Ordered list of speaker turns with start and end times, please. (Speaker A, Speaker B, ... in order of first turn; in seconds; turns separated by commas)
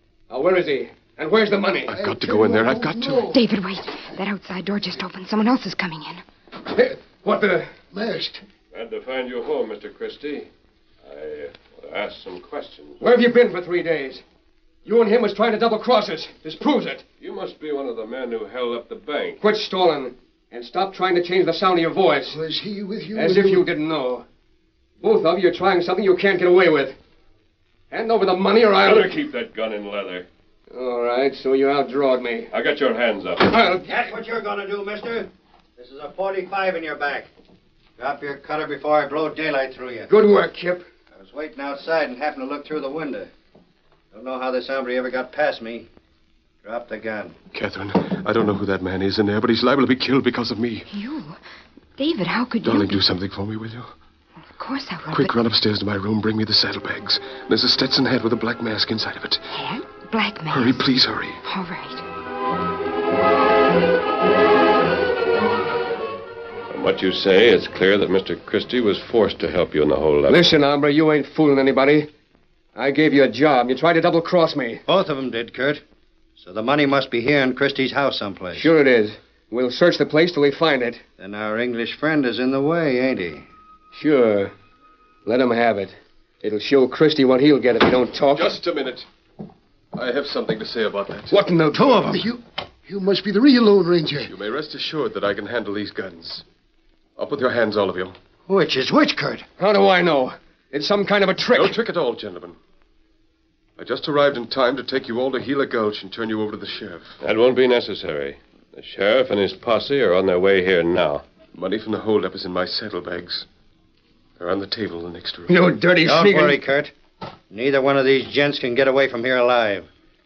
Speaker A: 0.3-1.9, Speaker B: 1.9-3.3, Speaker C: 1.9-3.4, Speaker D: 3.3-6.2, Speaker A: 6.7-7.7, Speaker C: 7.9-8.4, Speaker E: 8.7-10.5, Speaker E: 11.0-13.0, Speaker A: 13.0-14.2, Speaker A: 14.8-17.1, Speaker E: 17.2-19.4, Speaker A: 19.4-22.4, Speaker C: 22.3-23.7, Speaker A: 23.1-24.2, Speaker A: 25.0-27.0, Speaker A: 27.9-29.1, Speaker E: 28.8-30.3, Speaker A: 30.7-32.5, Speaker E: 32.5-33.6, Speaker A: 33.4-33.9, Speaker F: 33.9-37.3, Speaker F: 38.0-40.1, Speaker A: 40.1-40.8, Speaker F: 41.1-43.3, Speaker F: 44.1-45.9, Speaker F: 46.6-47.4, Speaker B: 47.5-50.9, Speaker D: 50.9-51.4, Speaker D: 52.0-53.0, Speaker B: 52.6-53.9, Speaker D: 54.5-55.4, Speaker B: 55.1-59.5, Speaker D: 59.5-60.8, Speaker B: 60.5-61.4, Speaker D: 61.4-62.0, Speaker E: 66.7-70.5, Speaker A: 70.3-72.1, Speaker A: 72.8-74.8, Speaker F: 74.9-75.8, Speaker F: 76.4-78.7, Speaker A: 78.5-81.0, Speaker F: 81.2-83.5, Speaker A: 83.9-84.5, Speaker A: 85.2-88.6, Speaker B: 88.3-89.1, Speaker B: 89.9-91.4, Speaker A: 91.3-92.1, Speaker C: 91.9-94.3, Speaker B: 94.3-96.4, Speaker B: 97.2-98.2, Speaker F: 98.5-99.5, Speaker A: 99.6-101.8, Speaker B: 101.5-102.6, Speaker B: 103.8-107.2, Speaker E: 107.2-111.2, Speaker B: 111.5-113.5, Speaker B: 114.4-115.6, Speaker A: 115.5-116.6, Speaker F: 116.0-116.9, Speaker F: 117.5-119.9